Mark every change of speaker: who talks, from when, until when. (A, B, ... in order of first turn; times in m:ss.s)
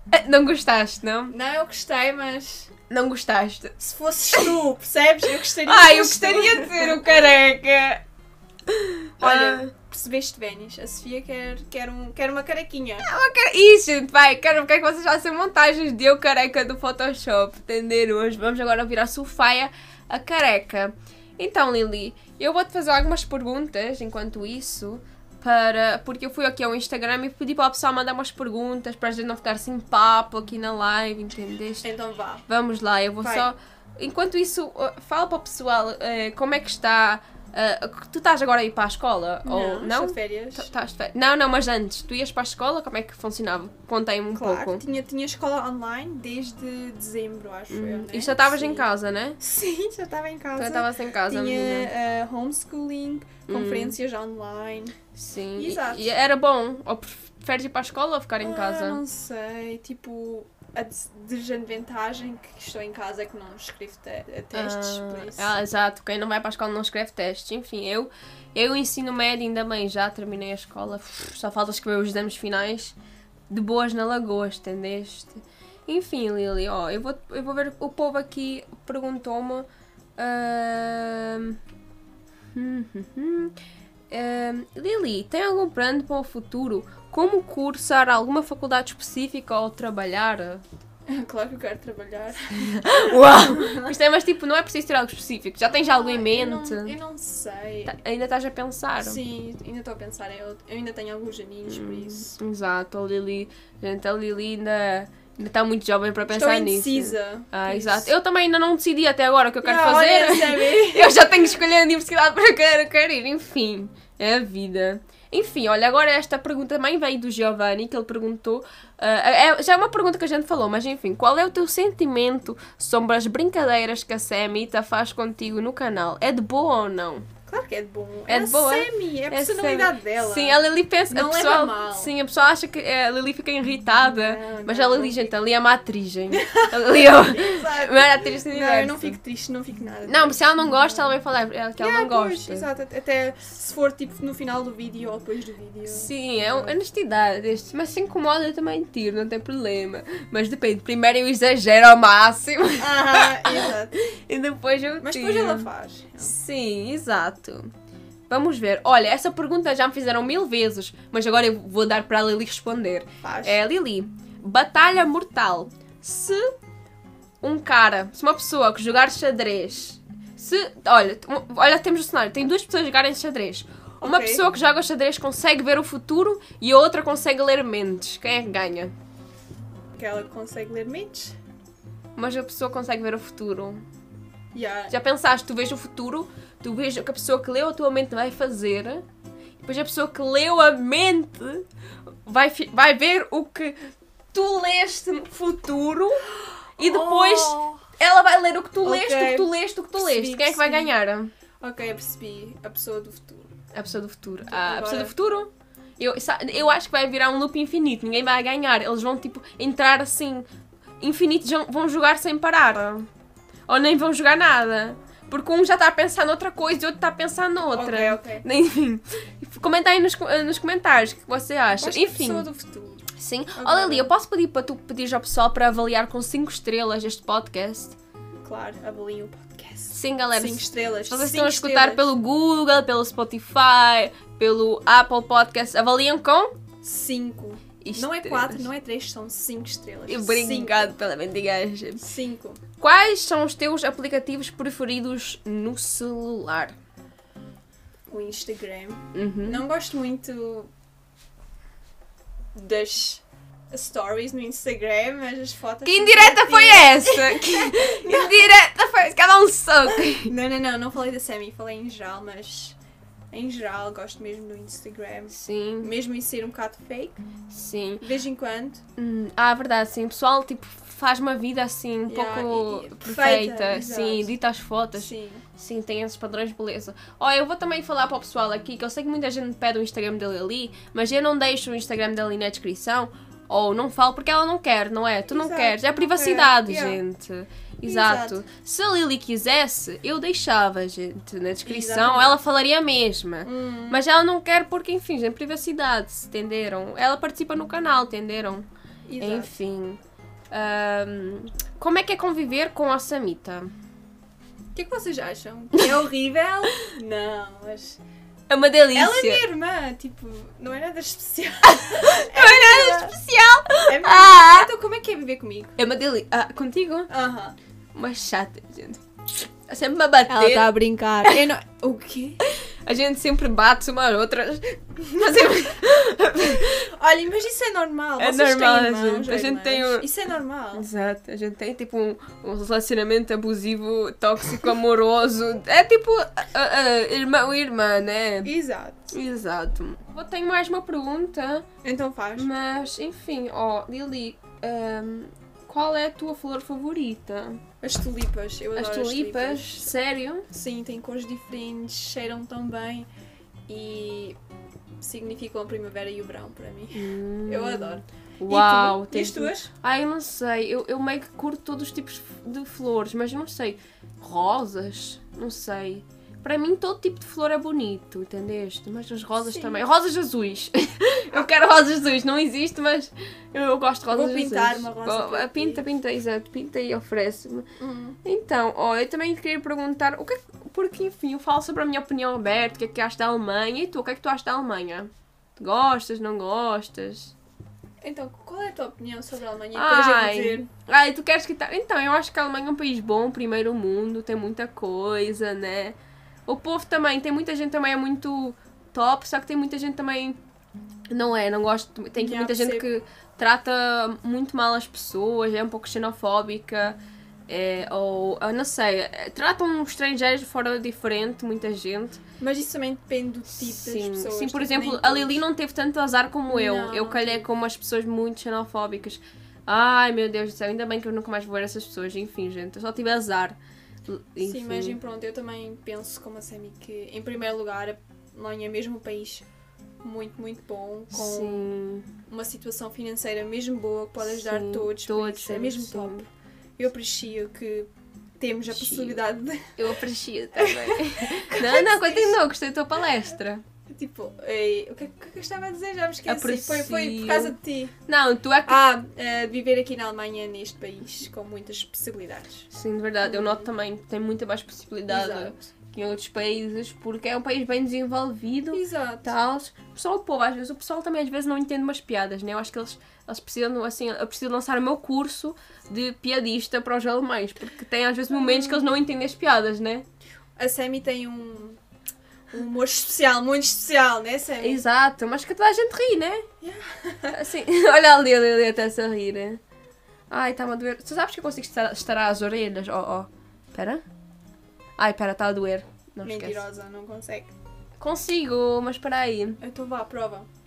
0:00.1-0:01.3 A
0:01.3-0:02.7 B
0:02.9-0:03.7 A
0:03.8-0:07.0 B
0:05.6-0:08.0 A
0:08.7-0:09.7 A
0:09.2-0:13.1 B
0:13.0-0:31.9 A
0:31.8-0:32.4 B
0:32.5-0:44.8 A
0:33.2-0:33.5 B
0:39.4-0:40.7 B
0:44.3-0:54.9 B
0:47.7-0:49.4 A
0:50.6-0:51.9 A
0:53.5-0:54.0 A
0:55.1-0:59.0 A
0:55.5-0:56.1 B
0:58.4-1:05.5 B
1:04.5-1:12.9 A
1:13.5-1:21.6 A
1:22.5-1:23.5 A
1:24.1-1:30.6 A
1:31.1-1:33.9 B
1:32.6-1:36.9 A
1:35.7-1:37.9 B
1:37.8-1:39.2 A
1:39.0-1:42.4 B
1:41.7-2:07.2 A
1:46.2-1:48.1 B
1:49.6-1:51.4 B
2:07.5-2:12.1 B
2:08.3-2:19.2 A
2:14.0-2:15.4 B
2:16.3-2:21.1 B
2:20.1-2:22.6 A
2:21.8-2:26.8 B
2:25.9-2:35.7 A
2:32.8-2:33.9 B
2:35.0-2:36.3 B
2:36.2-2:37.7 A
2:38.3-2:46.5 A
2:43.2-2:43.6 B
2:47.4-2:58.9 A
2:54.0-2:54.4 B
3:00.0-3:01.4 B
3:02.2-3:03.8 A
3:04.5-3:04.9 B
3:04.9-3:09.0 A
3:09.6-3:11.6 A
3:12.2-3:13.8 A
3:14.3-3:21.3 A
3:16.8-3:17.8 B
3:18.8-3:20.9 B
3:21.6-3:23.5 B
3:23.7-3:30.4 A
3:24.5-3:25.1 B
3:31.0-3:33.1 A
3:33.7-3:42.5 A
3:37.7-3:38.4 B
3:41.7-3:44.1 B
3:43.1-3:47.9 A
3:48.4-3:52.1 B
3:49.9-3:56.5 A
3:56.8-4:00.9 B
3:57.8-3:58.7 A
4:00.1-4:02.0 A
4:02.0-4:02.6 B
4:02.8-4:06.7 A
4:08.1-4:10.7 B
4:09.1-4:09.6 A
4:12.5-4:18.5 B
4:15.8-4:20.3 A
4:20.1-4:22.8 B
4:23.3-4:27.2 B
4:25.3-4:25.9 A
4:27.5-4:28.0 A
4:28.0-4:28.8 B
4:29.0-4:58.6 A
4:32.1-4:34.3 B
4:35.0-4:35.4 B
4:45.3-4:47.0 B
4:47.8-4:48.4 B
4:51.6-4:52.4 B
4:53.4-4:54.0 B
4:59.1-4:59.5 B
4:59.2-5:00.0 A
5:00.5-5:03.7 A
5:04.7-5:08.0 B
5:08.5-5:09.4 A
5:08.9-5:13.2 B
5:11.7-5:14.7 A
5:13.8-5:15.8 B
5:15.8-5:17.1 A
5:17.1-5:17.6 B
5:17.9-5:19.0 A
5:19.6-5:20.7 A
5:20.3-5:22.4 B
5:22.4-5:26.8 A
5:26.6-5:30.9 B
5:28.2-5:30.1 A
5:30.7-5:38.5 A
5:38.4-5:39.1 B
5:39.1-5:41.7 A
5:41.8-5:42.5 B
5:42.4-5:47.6 A
5:47.8-5:49.9 B
5:48.7-5:50.4 A
5:50.5-5:53.1 B
5:53.7-5:54.4 B
5:55.0-5:59.7 B
5:57.0-6:17.7 A
6:09.4-6:09.9 B
6:14.1-6:15.8 B
6:17.8-6:18.2 B
6:18.2-6:27.3 A
6:28.0-6:30.7 B
6:29.7-6:40.4 A
6:41.1-6:52.2 A
6:42.1-6:42.9 B
6:52.4-6:55.4 B
6:53.5-7:05.0 A
6:56.5-6:57.4 B
7:04.4-7:09.4 B
7:10.0-7:11.7 B
7:11.1-7:12.1 A
7:12.3-7:19.7 B
7:14.2-7:16.2 A
7:18.7-7:19.2 A
7:19.8-7:23.6 A
7:20.5-7:22.4 B
7:23.9-7:27.9 B
7:26.3-7:27.6 A
7:28.1-7:28.8 A
7:28.7-7:32.7 B
7:32.7-7:50.0 A
7:33.2-7:33.7 B
7:35.1-7:35.6 B
7:38.7-7:39.3 B
7:48.3-7:48.8 B
7:50.6-7:51.8 B
7:52.5-7:54.8 B
7:54.6-7:56.4 A
7:56.6-7:57.4 B
7:57.3-7:59.6 A
8:00.3-8:04.0 A
8:05.0-8:06.6 A
8:06.2-8:07.5 B
8:08.0-8:09.6 A
8:09.6-8:10.5 B